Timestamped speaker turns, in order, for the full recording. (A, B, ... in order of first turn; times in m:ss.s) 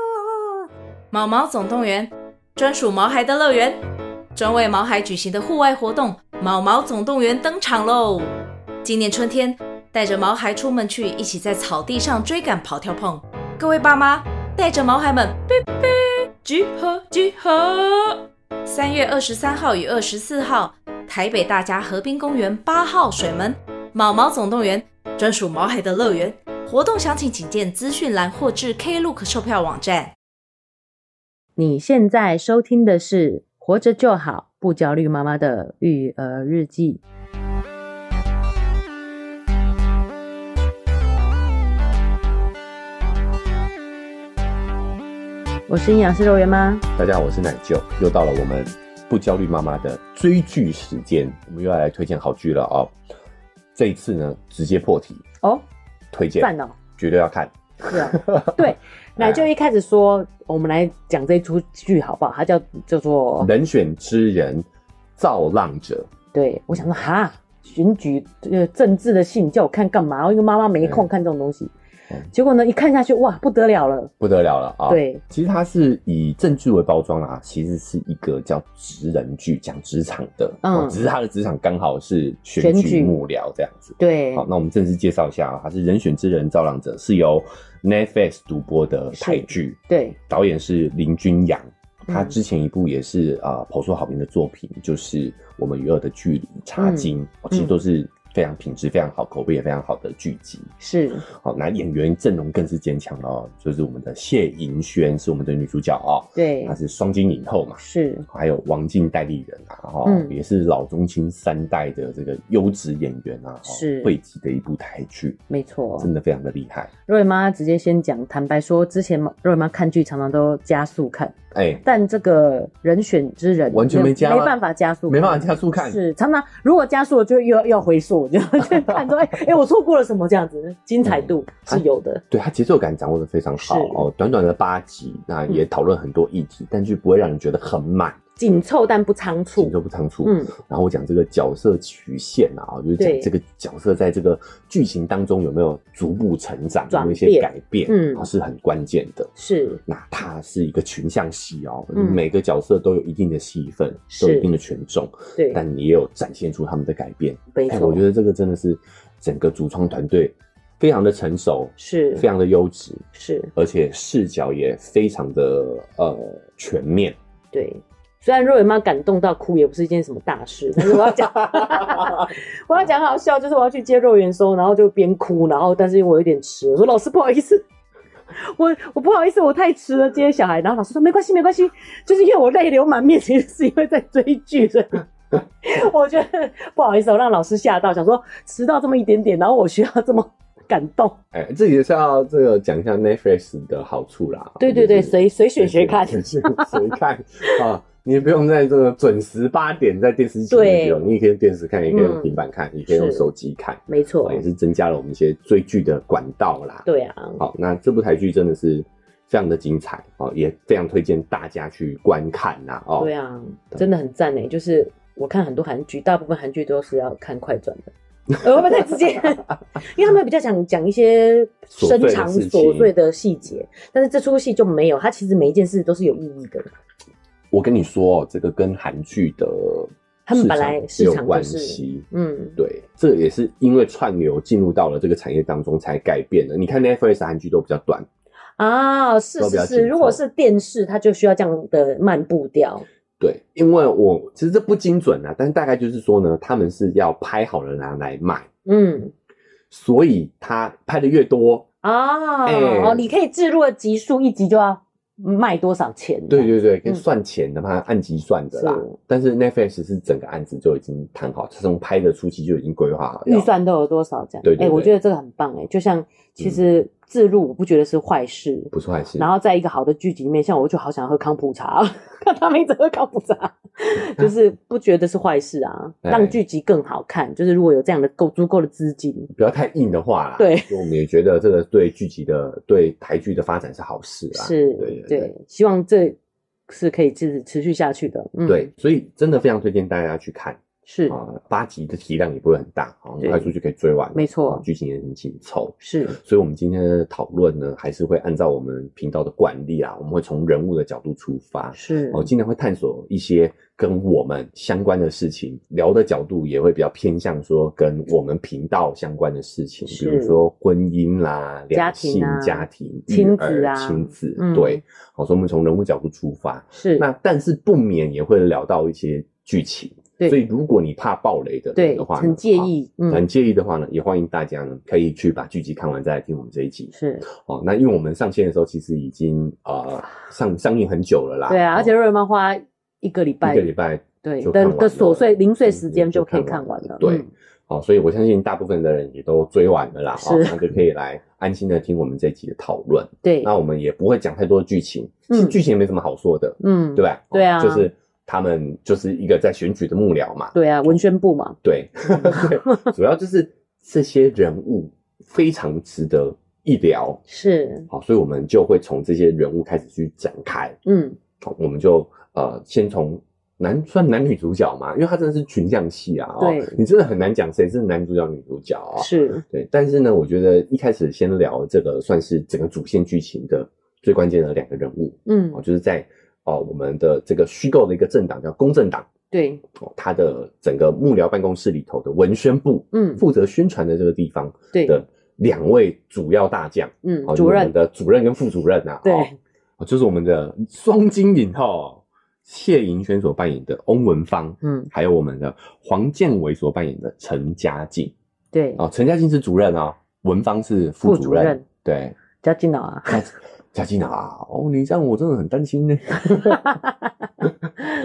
0:01.1-0:03.8 A
0:04.3-0:08.3 A
0:08.8-0:30.1 A
0:31.6-0:37.0 B
0:45.7-0:46.8 B
0:46.9-0:52.9 C
0:53.7-0:55.2 C
0:56.1-0:59.5 C
0:56.4-0:56.7 B
0:57.9-1:03.5 B
1:03.4-1:04.6 C
1:05.2-1:06.1 C
1:06.3-1:11.7 B
1:10.8-1:11.0 C
1:12.3-1:14.1 B
1:14.2-1:40.7 C
1:14.9-1:15.2 B
1:20.6-1:21.1 B
1:22.6-1:23.2 B
1:24.0-1:24.4 B
1:29.1-1:30.2 B
1:32.1-1:32.3 B
1:36.8-1:37.8 B
1:40.8-1:41.2 B
1:41.3-1:55.4 C
1:46.4-1:46.8 B
1:47.8-1:48.2 B
1:50.0-1:50.3 B
1:53.6-1:54.1 B
1:55.5-1:56.1 B
1:56.0-1:56.9 C
1:57.1-2:12.2 B
2:01.5-2:01.8 C
2:03.7-2:04.6 C
2:05.1-2:06.0 C
2:08.6-2:09.1 C
2:11.0-2:18.2 C
2:13.6-2:14.1 B
2:18.4-2:20.5 B
2:19.6-2:29.3 C
2:23.0-2:23.3 B
2:26.9-2:28.3 B
2:29.4-2:29.8 B
2:29.8-2:43.0 C
2:31.9-2:32.2 B
2:34.1-2:34.5 B
2:35.4-2:35.6 B
2:37.5-2:38.0 B
2:41.8-2:42.2 B
2:43.1-2:43.5 B
2:43.5-2:47.2 C
2:47.5-2:57.6 B
2:50.8-2:52.3 C
2:58.3-3:05.0 B
3:05.6-3:11.2 B
3:11.3-3:26.9 C
3:14.6-3:16.9 B
3:20.5-3:21.0 B
3:21.9-3:23.3 B
3:23.9-3:24.4 B
3:26.8-3:27.4 B
3:27.4-3:33.1 C
3:33.0-3:46.7 B
3:38.5-3:38.8 C
3:41.7-3:42.9 C
3:47.5-3:52.0 C
3:50.3-3:52.6 B
3:52.6-3:58.1 C
3:58.6-4:02.8 B
3:59.4-4:00.2 C
4:03.2-4:08.5 C
4:08.6-4:09.1 B
4:09.7-4:11.6 C
4:11.8-4:17.0 B
4:12.4-4:13.0 C
4:16.3-4:23.5 C
4:18.5-4:19.0 B
4:23.2-4:39.3 B
4:24.4-4:24.9 C
4:28.7-4:29.3 C
4:36.0-4:36.4 C
4:39.3-4:45.3 C
4:40.4-4:40.8 B
4:44.3-4:46.2 B
4:46.7-4:48.7 B
4:48.4-5:31.9 C
4:50.8-4:51.2 B
4:53.2-4:53.5 B
4:54.1-4:54.6 B
4:55.8-4:56.2 B
5:01.7-5:02.3 B
5:09.8-5:10.4 B
5:11.7-5:14.8 B
5:16.7-5:17.0 B
5:21.8-5:23.2 B
5:26.9-5:27.2 B
5:31.5-5:37.3 B
5:33.4-5:51.0 C
5:40.1-5:40.6 B
5:43.2-5:43.5 B
5:45.3-5:45.6 B
5:46.6-5:47.9 B
5:50.5-5:51.6 B
5:51.6-5:57.2 C
5:52.1-5:52.9 B
5:57.3-5:57.9 B
5:57.9-6:00.8 C
6:00.8-6:01.2 B
6:01.4-6:19.1 C
6:06.4-6:06.8 B
6:09.0-6:09.4 B
6:15.2-6:15.6 B
6:19.3-6:19.6 B
6:19.7-6:38.1 C
6:22.9-6:23.2 B
6:27.0-6:27.7 B
6:29.0-6:29.4 B
6:34.6-6:34.9 B
6:38.5-6:38.8 B
6:38.8-6:42.2 C
6:41.0-6:41.6 B
6:42.4-6:43.3 B
6:43.1-6:46.8 C
6:46.3-6:47.1 B